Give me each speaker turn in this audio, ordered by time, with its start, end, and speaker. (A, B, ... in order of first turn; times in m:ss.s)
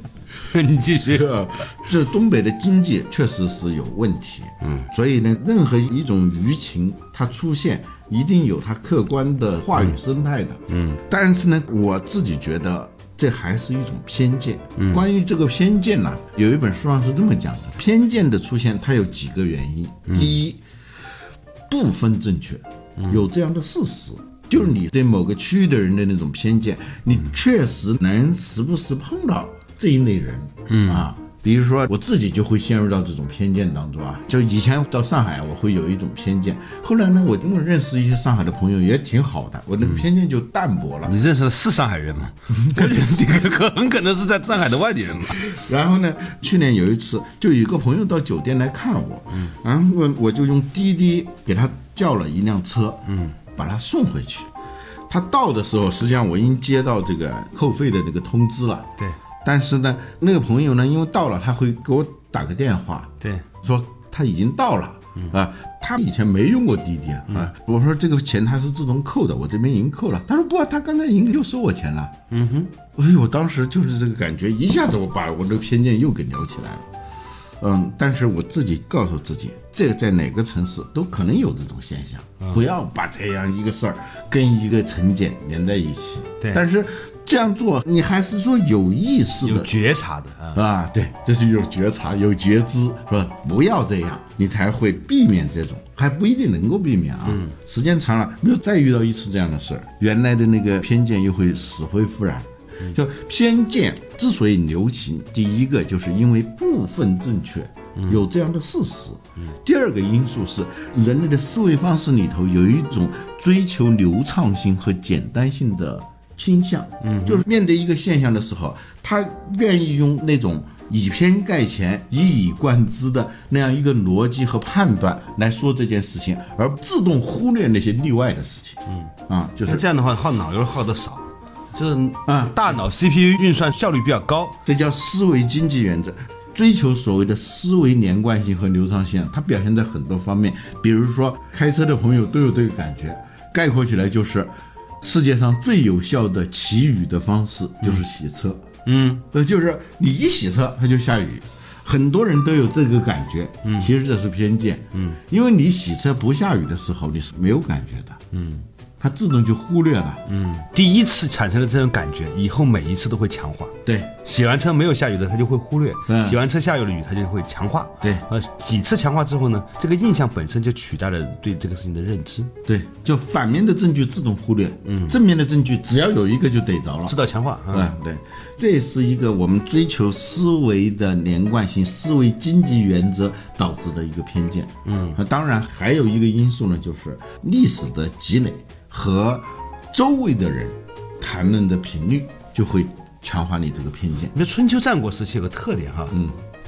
0:00.4-0:01.4 A
0:01.1-0:20.6 B
0:10.7-0:11.0 A
0:14.8-0:15.0 A
0:20.1-0:20.4 A
0:21.7-0:41.2 B
0:23.0-0:23.2 A
0:30.7-0:31.1 A
0:41.0-0:45.4 A
0:42.6-0:43.0 B
0:45.4-0:54.5 B
0:53.1-0:53.3 A
0:55.1-0:58.9 B
0:59.4-1:12.1 B
1:12.3-1:12.7 A
1:13.0-1:16.9 B
1:17.6-1:29.7 B
1:29.4-1:30.6 A
1:30.5-2:09.9 B
1:37.3-1:37.5 A
1:48.0-1:48.2 A
1:57.0-1:57.4 A
2:09.6-2:14.6 A
2:12.3-2:12.6 B
2:14.6-2:28.6 B
2:28.9-2:29.2 A
2:29.2-2:38.2 B
2:33.6-2:33.9 A
2:38.3-2:38.6 A
2:39.0-2:40.2 B
2:40.3-2:52.5 A
2:43.8-2:44.1 B
2:46.1-2:46.4 B
2:52.7-2:57.2 B
2:54.8-2:55.2 A
2:57.1-2:57.9 A
2:57.7-3:14.3 B
3:04.8-3:05.2 A
3:14.3-3:16.2 A
3:16.1-3:16.4 B